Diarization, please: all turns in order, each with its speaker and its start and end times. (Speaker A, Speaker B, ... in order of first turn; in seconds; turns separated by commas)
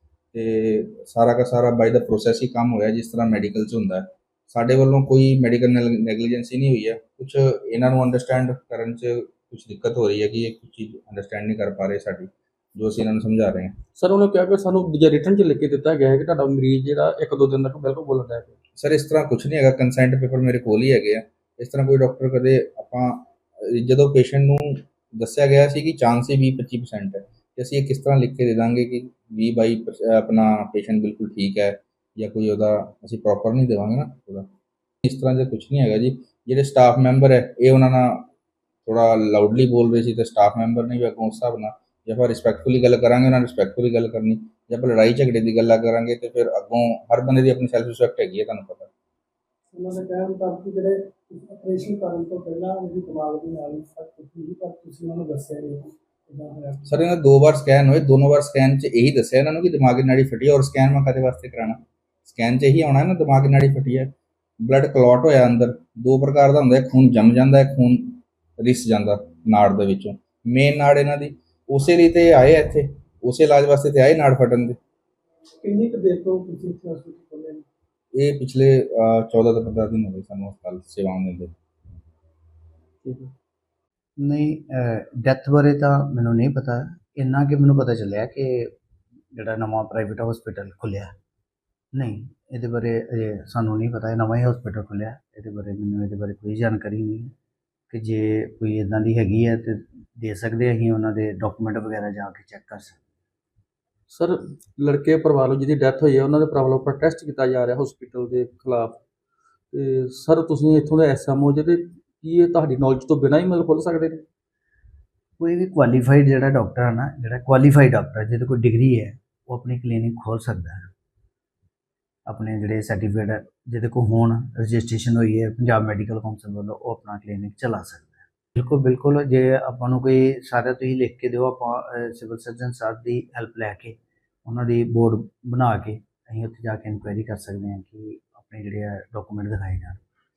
Speaker A: 0.3-13.7, Speaker B: 13.9-18.5, Speaker A: 18.8-34.5, Speaker A: 35.0-38.3, Speaker A: 38.8-48.9, Speaker C: 49.7-56.8, Speaker A: 56.9-74.8, Speaker C: 75.6-77.7, Speaker A: 78.1-81.5, Speaker B: 83.0-83.3, Speaker D: 84.2-88.7, Speaker D: 89.3-91.1, Speaker D: 91.9-97.3, Speaker D: 97.9-103.0, Speaker B: 104.1-109.0, Speaker B: 109.7-114.2, Speaker D: 115.4-120.9, Speaker D: 122.3-140.0